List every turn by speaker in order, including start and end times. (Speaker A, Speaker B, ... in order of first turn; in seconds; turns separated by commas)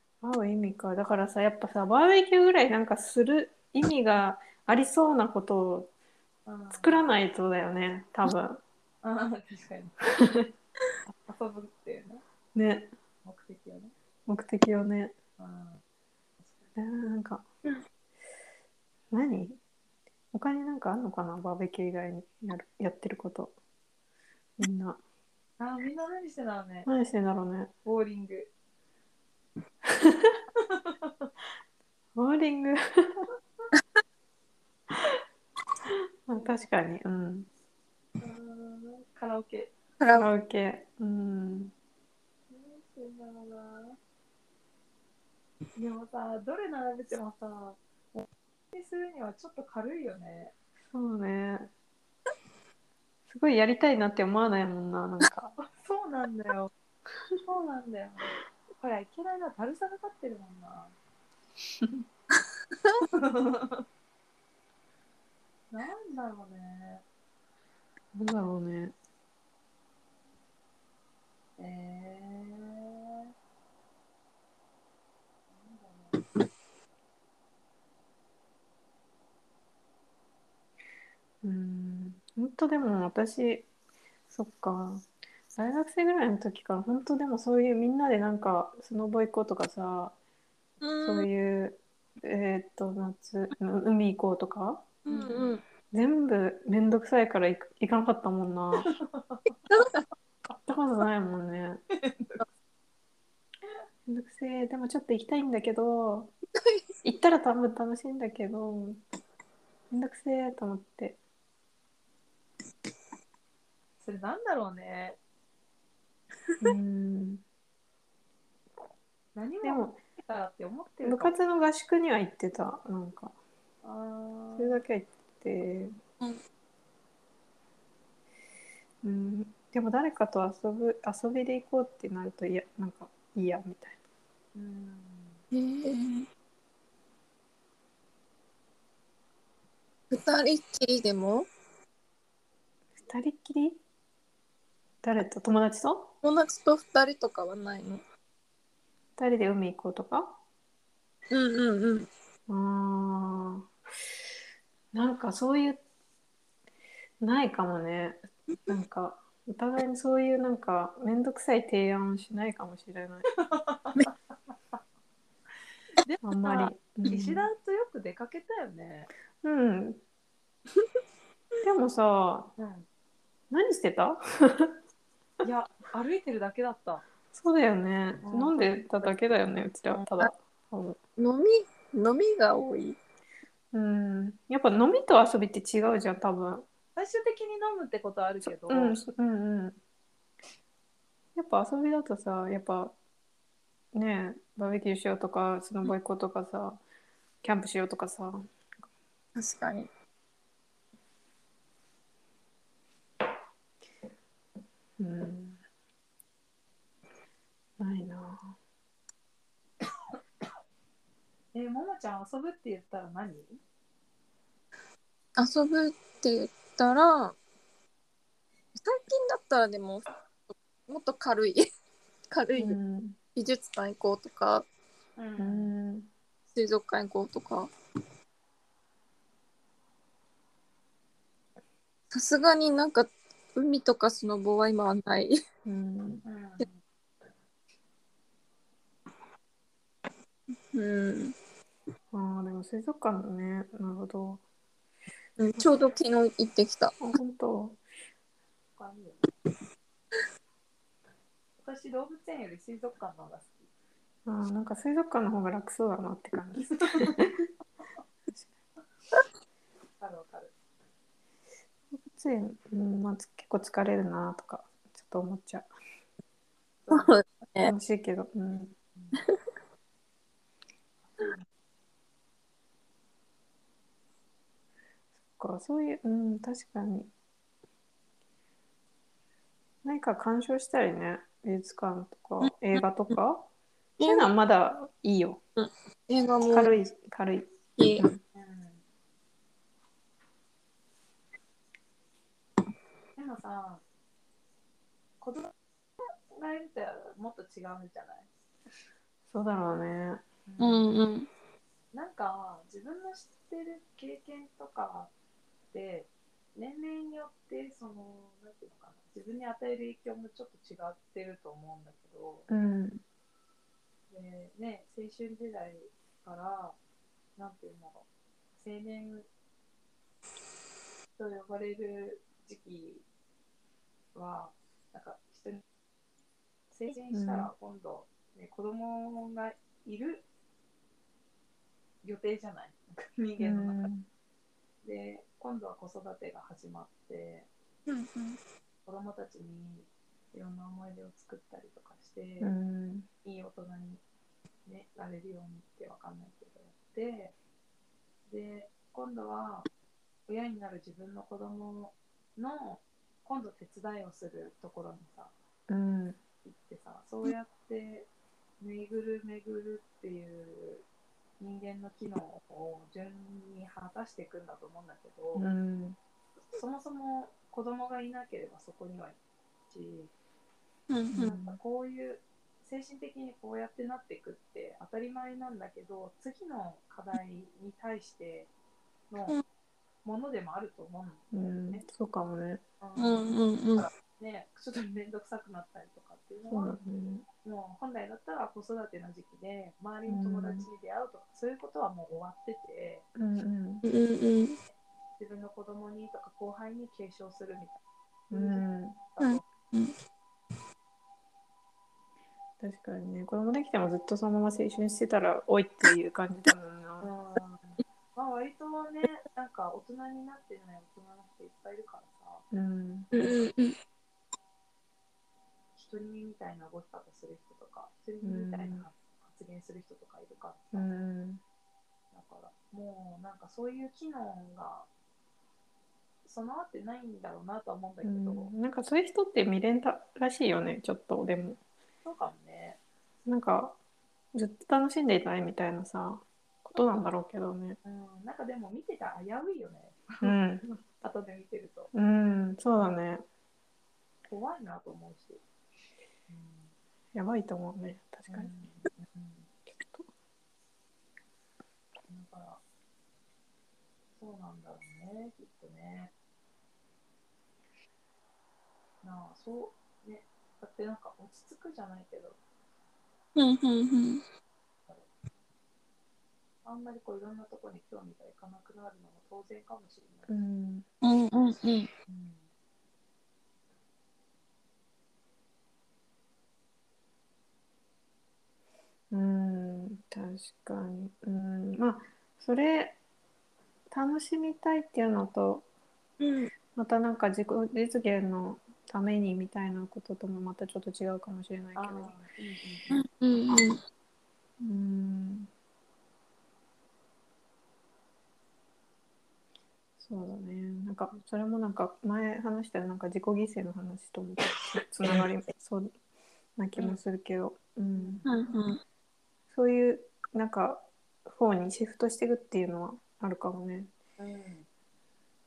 Speaker A: 0.2-5.9, Speaker B: 6.5-7.0, Speaker A: 6.7-8.6, Speaker B: 9.0-10.0, Speaker A: 10.2-10.5, Speaker B: 11.1-12.2, Speaker A: 12.5-12.9, Speaker B: 13.2-13.9, Speaker A: 14.3-15.1, Speaker B: 15.4-15.8, Speaker A: 16.8-17.4, Speaker A: 19.1-19.6, Speaker A: 20.3-23.5, Speaker A: 24.6-25.0, Speaker B: 25.6-26.9, Speaker A: 26.9-27.7, Speaker B: 27.8-28.5, Speaker A: 29.8-30.4, Speaker B: 30.6-31.3, Speaker A: 32.1-33.3, Speaker A: 34.9-35.2, Speaker A: 35.9-37.5, Speaker B: 36.3-36.7, Speaker B: 38.2-39.7, Speaker C: 40.0-40.3, Speaker A: 40.1-41.7, Speaker B: 42.5-44.0, Speaker B: 45.8-50.5, Speaker A: 50.9-51.7, Speaker A: 53.3-55.5, Speaker B: 55.6-56.7, Speaker B: 57.5-61.0, Speaker B: 63.1-63.9, Speaker B: 65.7-67.0, Speaker A: 68.1-69.0, Speaker B: 71.6-73.1, Speaker B: 75.5-76.2, Speaker A: 81.4-83.7, Speaker A: 84.3-90.1, Speaker C: 90.8-91.3, Speaker A: 91.0-98.9, Speaker C: 95.1-95.6, Speaker B: 99.0-99.5, Speaker A: 100.5-101.8, Speaker B: 101.9-102.4, Speaker A: 104.1-106.3, Speaker C: 106.5-106.8, Speaker A: 107.0-109.0, Speaker A: 109.9-111.2, Speaker B: 114.0-115.2, Speaker A: 116.6-117.4, Speaker B: 119.3-121.3, Speaker A: 119.6-120.0, Speaker A: 121.0-123.3, Speaker B: 123.8-124.8, Speaker A: 124.5-126.0, Speaker A: 129.0-134.0, Speaker B: 134.5-135.4, Speaker C: 135.5-136.3, Speaker C: 140.1-141.5, Speaker A: 143.0-143.8, Speaker A: 145.0-146.1, Speaker C: 146.2-148.0, Speaker A: 149.2-150.4, Speaker C: 151.3-152.1, Speaker A: 152.5-153.7, Speaker A: 154.9-155.8, Speaker A: 157.2-163.3, Speaker B: 163.3-164.1, Speaker B: 166.0-169.1, Speaker A: 166.2-167.5, Speaker A: 169.4-170.0, Speaker A: 171.6-172.5, Speaker B: 172.6-172.9, Speaker A: 173.5-174.8, Speaker B: 175.4-177.0, Speaker A: 177.3-181.0, Speaker B: 178.2-179.4, Speaker C: 181.2-183.0, Speaker A: 183.7-186.7, Speaker B: 186.9-189.0, Speaker A: 188.7-189.8, Speaker A: 191.3-192.9, Speaker A: 193.9-196.8, Speaker A: 197.4-198.5, Speaker C: 199.3-199.9, Speaker A: 205.0-205.6, Speaker A: 207.8-208.5, Speaker B: 211.5-213.6, Speaker C: 215.4-217.4, Speaker C: 218.7-220.1, Speaker C: 220.9-221.7, Speaker C: 222.3-222.8, Speaker A: 222.6-223.2, Speaker C: 223.3-224.7, Speaker B: 225.2-225.7, Speaker A: 225.4-226.1, Speaker C: 226.5-227.7, Speaker C: 232.1-235.4, Speaker A: 235.6-236.2, Speaker B: 236.2-236.8, Speaker C: 240.7-241.3, Speaker A: 242.1-244.4, Speaker C: 245.4-246.9, Speaker A: 247.0-247.8, Speaker B: 248.8-249.3, Speaker B: 251.6-253.7, Speaker A: 254.2-257.5, Speaker B: 256.7-257.1, Speaker B: 260.0-260.5, Speaker A: 261.9-265.7, Speaker B: 266.8-267.2, Speaker C: 266.9-267.7, Speaker A: 267.6-268.7, Speaker B: 268.9-269.2, Speaker B: 271.0-271.4, Speaker A: 275.3-277.1, Speaker A: 279.8-283.5, Speaker C: 282.4-282.8, Speaker C: 284.0-284.3, Speaker A: 284.0-285.4, Speaker C: 285.6-286.7, Speaker A: 286.5-288.2, Speaker C: 287.8-288.1, Speaker B: 288.3-288.8, Speaker B: 293.1-293.8, Speaker B: 295.2-295.5, Speaker B: 296.1-298.3, Speaker A: 299.3-300.2, Speaker B: 300.4-300.9, Speaker C: 300.6-301.3, Speaker B: 301.9-305.1, Speaker B: 305.7-312.5, Speaker A: 312.5-313.0, Speaker B: 314.1-316.8, Speaker B: 317.4-319.3, Speaker B: 321.1-323.0, Speaker B: 324.1-325.6, Speaker B: 326.7-330.2, Speaker A: 327.1-327.5, Speaker B: 332.0-333.9, Speaker A: 333.4-334.1, Speaker B: 334.8-337.5, Speaker C: 337.9-338.4, Speaker B: 338.9-342.5, Speaker A: 342.4-343.1, Speaker B: 343.2-344.0, Speaker B: 344.6-347.3, Speaker B: 348.3-349.7, Speaker B: 350.3-355.3, Speaker A: 355.7-356.2, Speaker B: 356.4-358.1, Speaker B: 358.6-360.8, Speaker B: 361.4-365.4, Speaker A: 365.3-366.0, Speaker B: 366.5-369.2, Speaker B: 369.7-370.1, Speaker C: 370.9-371.3, Speaker A: 371.1-371.6, Speaker B: 371.3-378.5, Speaker B: 379.1-379.4, Speaker B: 380.0-381.8, Speaker A: 381.3-382.6, Speaker B: 382.8-386.8, Speaker C: 383.0-383.9, Speaker A: 386.5-387.2, Speaker B: 387.4-393.1, Speaker A: 390.1-390.6, Speaker A: 393.1-393.8, Speaker C: 393.8-394.6, Speaker B: 395.2-399.4, Speaker A: 398.3-399.0, Speaker C: 399.2-399.9, Speaker A: 402.6-407.1, Speaker B: 407.0-412.4, Speaker A: 412.5-413.1, Speaker C: 413.1-413.8, Speaker B: 415.8-420.9, Speaker A: 418.2-418.9, Speaker A: 420.7-421.4, Speaker B: 422.1-424.9, Speaker B: 426.2-428.5, Speaker A: 428.0-431.6, Speaker B: 432.0-432.8, Speaker A: 433.2-433.8, Speaker A: 434.3-437.8, Speaker B: 437.8-440.3, Speaker A: 440.2-440.8, Speaker B: 441.0-441.9, Speaker A: 441.9-443.2, Speaker B: 444.3-445.4, Speaker B: 446.3-446.7, Speaker A: 447.1-448.5, Speaker B: 448.3-449.5, Speaker A: 449.7-450.1, Speaker B: 452.1-452.6, Speaker B: 454.1-456.1, Speaker B: 459.0-462.4, Speaker C: 463.4-464.2, Speaker B: 466.6-470.3, Speaker A: 470.3-470.9, Speaker C: 471.0-471.9, Speaker B: 472.1-472.5, Speaker A: 479.1-483.0, Speaker A: 483.9-485.6, Speaker C: 486.2-486.5, Speaker A: 486.7-492.1, Speaker B: 491.7-493.0, Speaker C: 492.9-493.8, Speaker A: 494.6-495.5, Speaker A: 500.0-505.9, Speaker A: 506.6-508.2, Speaker B: 507.9-508.5, Speaker C: 508.2-508.8, Speaker A: 509.5-513.9, Speaker B: 514.2-514.7